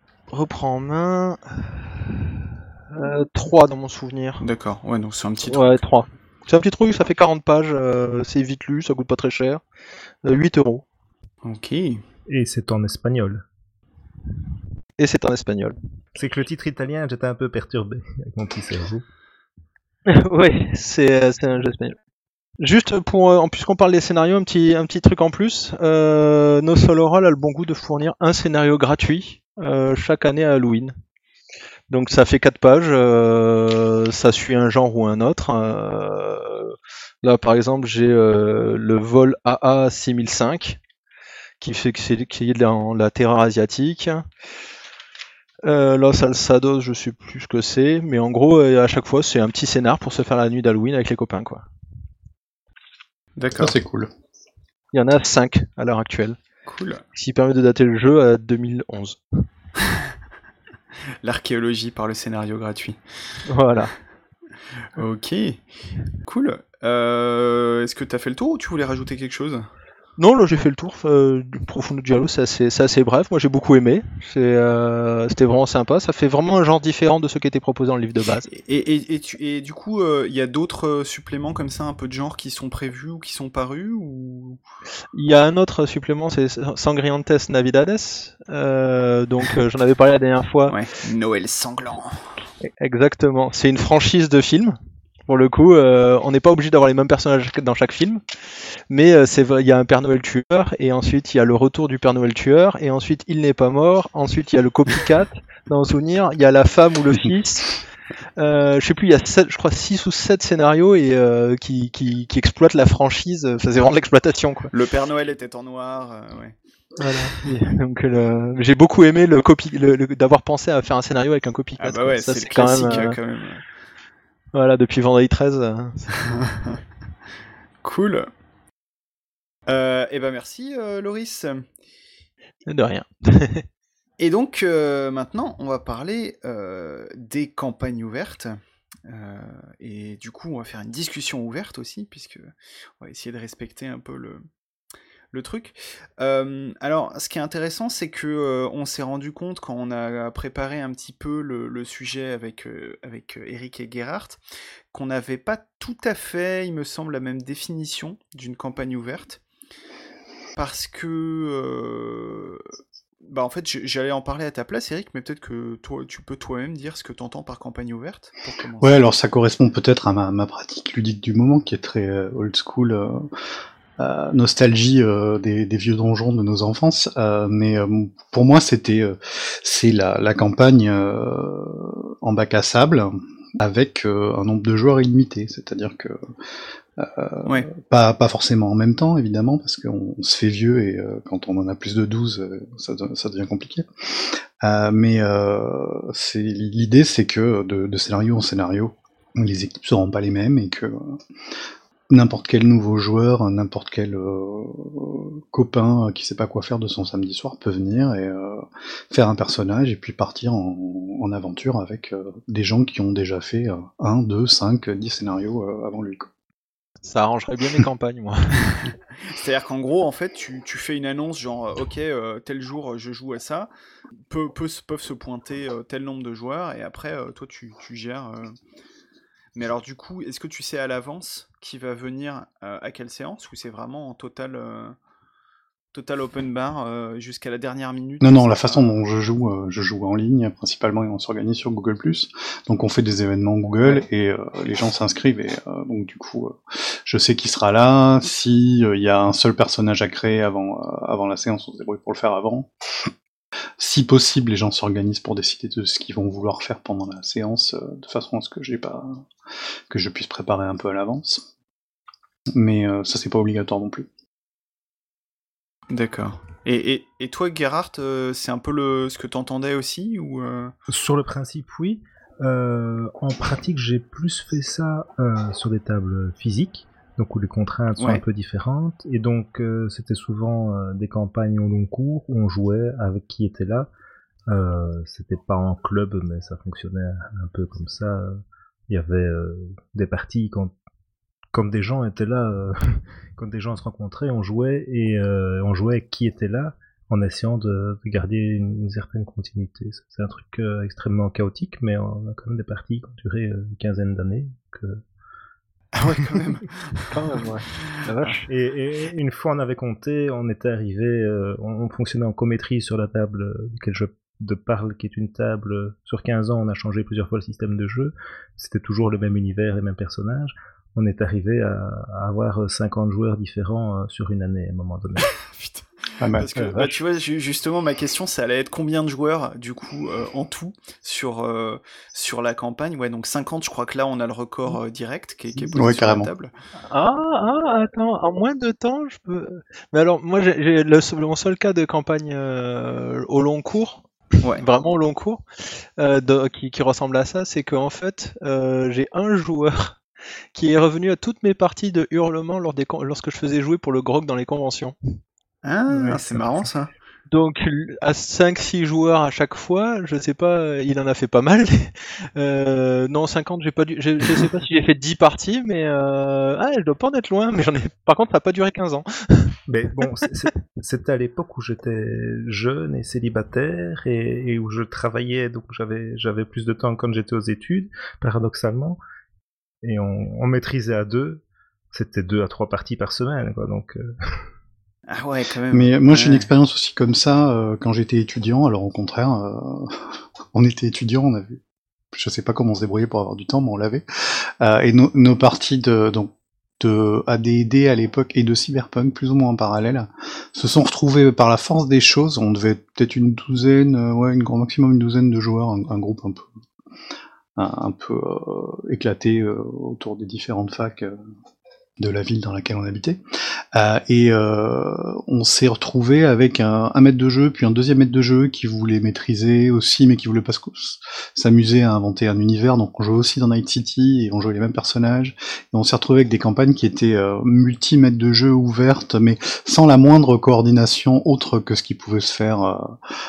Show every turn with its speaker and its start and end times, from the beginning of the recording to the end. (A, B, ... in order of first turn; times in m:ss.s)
0:00.3-0:04.4 A
0:04.4-0:05.8 B
0:05.5-0:09.6 A
0:10.2-0:10.8 A
0:11.4-0:12.0 B
0:12.3-0:13.4 C
0:15.0-0:15.8 A
0:16.2-0:19.0 C
0:20.1-0:22.0 A
0:22.6-0:30.9 A
0:31.9-0:40.8 A
0:41.6-0:44.2 A
0:45.6-0:51.6 A
0:53.4-0:53.8 B
0:53.6-0:54.1 D
0:54.9-0:56.4 A
0:56.7-0:57.0 B
0:57.1-0:59.2 A
1:01.2-1:03.0 B
1:03.5-1:03.9 A
1:05.0-1:05.6 B
1:06.2-1:09.7 B
1:10.2-1:18.5 A
1:18.5-1:24.6 B
1:25.1-1:30.8 A
1:30.7-1:32.3 B
1:32.8-1:38.2 A
1:38.9-1:47.8 A
1:48.4-1:54.7 A
1:54.7-1:56.6 B
1:57.0-2:03.2 A
2:01.8-2:03.6 B
2:04.5-2:06.2 A
2:06.4-2:06.7 B
2:07.8-2:08.3 B
2:09.7-2:11.6 B
2:12.7-2:13.6 A
2:14.2-2:24.4 B
2:25.3-2:34.4 B
2:34.9-2:39.4 B
2:40.6-2:42.6 B
2:43.2-2:49.0 B
2:48.8-2:53.3 D
2:54.0-3:06.3 D
3:07.0-3:21.2 D
3:22.1-3:36.3 D
3:37.0-3:38.8 A
3:39.2-3:43.7 B
3:44.3-3:48.5 B
3:49.5-3:55.0 B
3:55.9-3:58.9 B
3:58.2-4:13.1 D
4:13.8-4:19.2 D
4:19.9-4:21.4 D
4:22.5-4:24.1 D
4:25.9-4:30.7 B
4:30.9-4:43.9 C
4:38.0-4:38.2 B
4:44.5-4:50.7 C
4:51.5-5:05.0 C
5:05.9-5:07.1 B
5:07.1-5:08.5 A
5:08.5-5:25.4 C
5:25.5-5:25.8 B
5:26.2-5:26.9 D
5:26.4-5:36.5 B
5:35.7-5:36.3 D
5:36.8-5:50.0 A
5:50.5-5:54.9 A
5:55.6-5:56.9 B
5:55.9-5:56.2 D
5:57.3-6:09.6 A
6:09.7-6:19.0 C
6:19.8-6:24.4 C
6:25.1-6:26.5 B
6:25.7-6:31.6 D
6:32.1-6:46.5 D
6:47.6-6:51.2 D
6:52.0-6:53.2 D
6:53.7-7:13.0 D